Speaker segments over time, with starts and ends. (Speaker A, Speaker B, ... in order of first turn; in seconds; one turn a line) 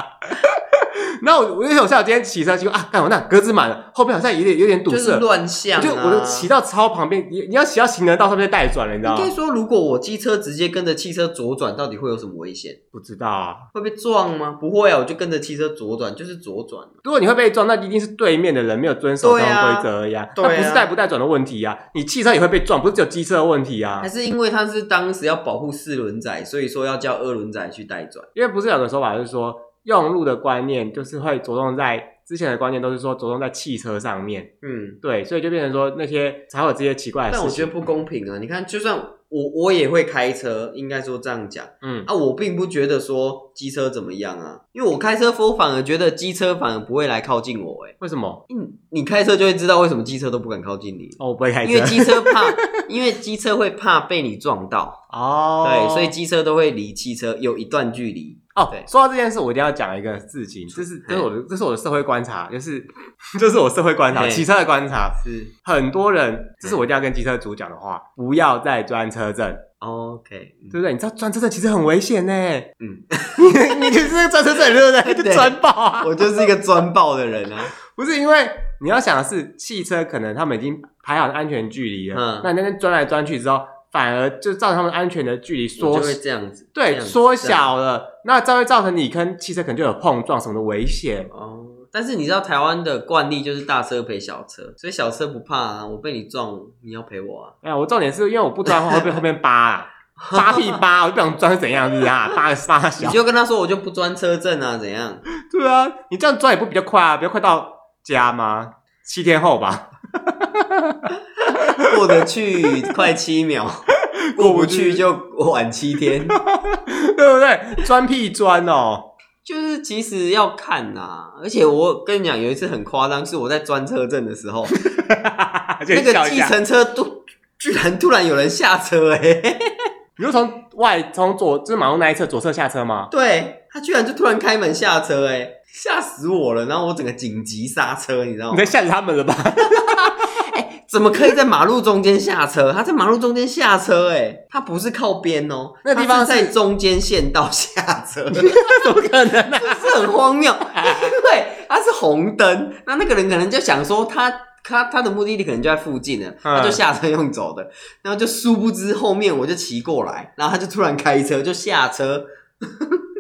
Speaker A: 0.2-9.3
Speaker B: 4.9-6.5
Speaker B: 9.0-12.8
Speaker A: 12.9-13.7
Speaker B: 13.7-17.0
Speaker A: 17.1-24.1
Speaker B: 19.2-20.9
Speaker B: 24.0-28.3
Speaker A: 28.4-34.5
Speaker B: 34.6-35.0
Speaker A: 35.0-37.9
Speaker B: 37.3-48.0
Speaker A: 41.8-42.1
Speaker A: 48.0-48.4
Speaker B: 48.5-55.0
Speaker A: 51.2-52.8
Speaker A: 55.1-56.1
Speaker B: 55.6-58.9
Speaker A: 58.5-69.6
Speaker B: 60.7-61.3
Speaker B: 64.1-64.5
Speaker B: 65.2-65.5
Speaker B: 69.8-70.8
Speaker A: 70.7-72.7
Speaker B: 72.8-73.9
Speaker A: 73.4-76.5
Speaker B: 75.0-77.7
Speaker A: 77.8-86.2
Speaker B: 82.1-82.5
Speaker B: 85.8-87.7
Speaker A: 86.8-91.3
Speaker B: 91.3-97.6
Speaker A: 97.6-103.2
Speaker B: 98.7-99.2
Speaker B: 100.2-100.8
Speaker B: 103.0-105.2
Speaker A: 105.4-111.9
Speaker B: 111.8-116.4
Speaker A: 114.2-115.0
Speaker A: 116.3-119.1
Speaker B: 119.5-124.8
Speaker A: 124.8-126.5
Speaker B: 125.9-129.6
Speaker A: 130.2-133.1
Speaker B: 133.1-138.8
Speaker A: 138.5-140.2
Speaker B: 139.8-148.7
Speaker A: 145.8-146.5
Speaker A: 148.4-150.1
Speaker B: 149.6-163.0
Speaker A: 150.7-151.2
Speaker A: 156.4-156.8